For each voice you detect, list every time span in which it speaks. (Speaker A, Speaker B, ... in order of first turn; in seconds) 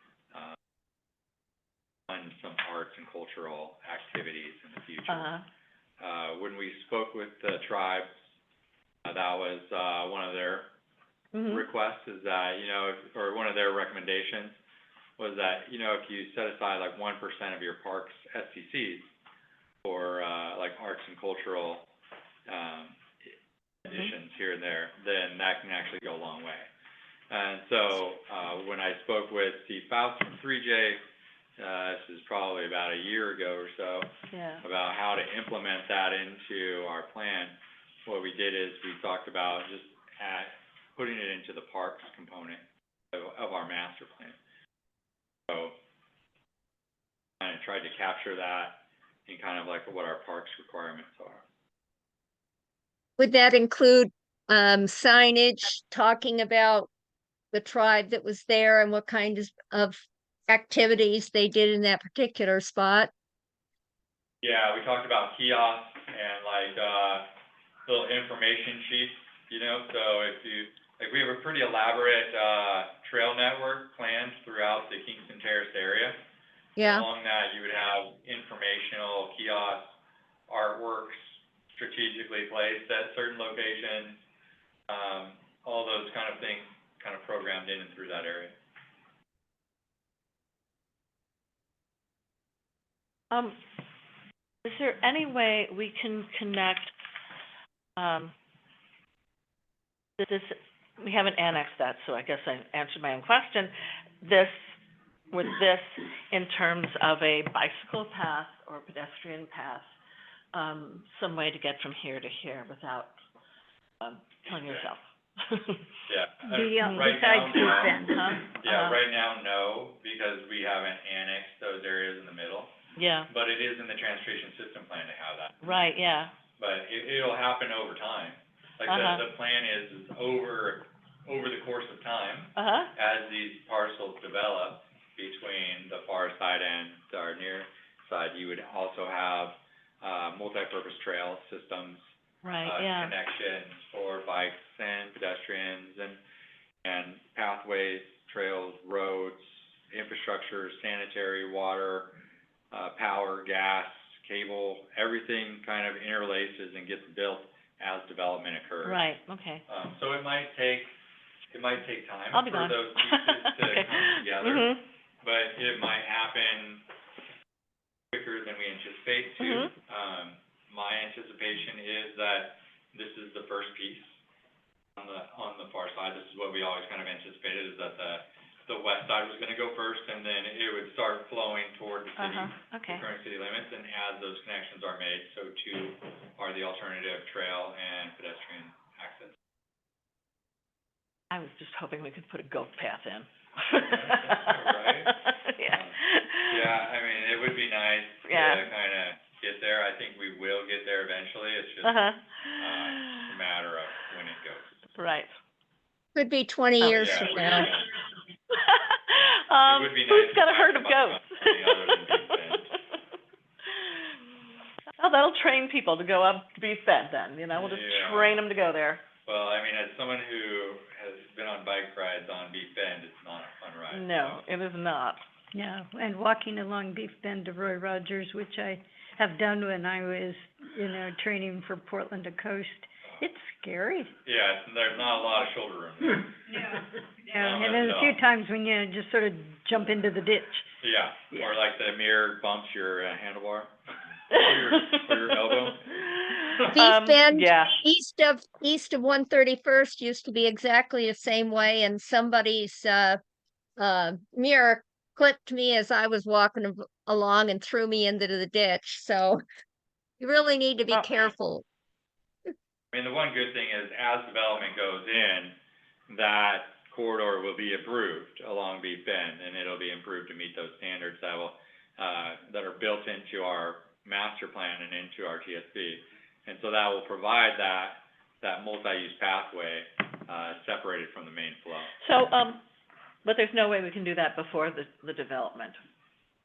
Speaker A: 2.1-5.3, 6.0-8.1, 9.1-10.7, 11.5-14.6, 15.2-19.1, 19.8-21.9, 22.5-23.3, 23.9-26.7, 27.3-31.0, 31.6-34.1, 34.6-44.4, 45.5-45.8, 47.4-51.4, 64.4-67.3, 67.9-76.2, 76.8-80.0, 80.5-84.2, 84.9-88.5, 114.5-114.9, 116.1-122.7, 123.3-125.8, 126.6-142.0, 142.6-146.2, 146.8-152.2, 152.7-159.0, 159.7-160.9, 161.5-164.7, 165.2-166.8, 168.1-174.2, 175.0-189.4, 193.9-202.0, 202.6-204.7, 206.8-207.9, 209.6-212.7, 217.5-218.4, 219.3-224.4, 234.2-236.8, 237.4-238.2, 240.8-243.7, 244.3-246.8, 262.9-265.6, 266.1-281.9
Speaker B: 5.1-5.4, 11.3-11.7, 34.3-34.6, 93.3-93.6, 94.6-96.9, 98.0-98.3, 100.2-104.6, 105.3-109.9, 110.5-113.1, 114.0-115.8, 117.9-119.0, 123.0-123.3, 125.6-126.3, 128.9-129.2, 132.6-132.9, 142.4-143.1, 158.8-159.6, 162.3-164.8, 169.4-169.7, 182.2-183.0, 191.3-196.7, 198.3-198.7, 201.8-203.3, 205.0-205.3, 206.8-207.7, 208.5-212.2, 213.7-214.2, 215.0-219.0, 223.9-225.2, 244.3-247.8, 260.9-261.2, 282.0-282.6, 283.2-285.8
Speaker C: 53.2-56.9, 57.5-63.1, 76.8-77.0, 206.2-207.7, 246.7-253.2, 253.8-259.4, 260.2-261.6
Speaker D: 116.4-118.4, 225.5-234.1, 236.5-240.7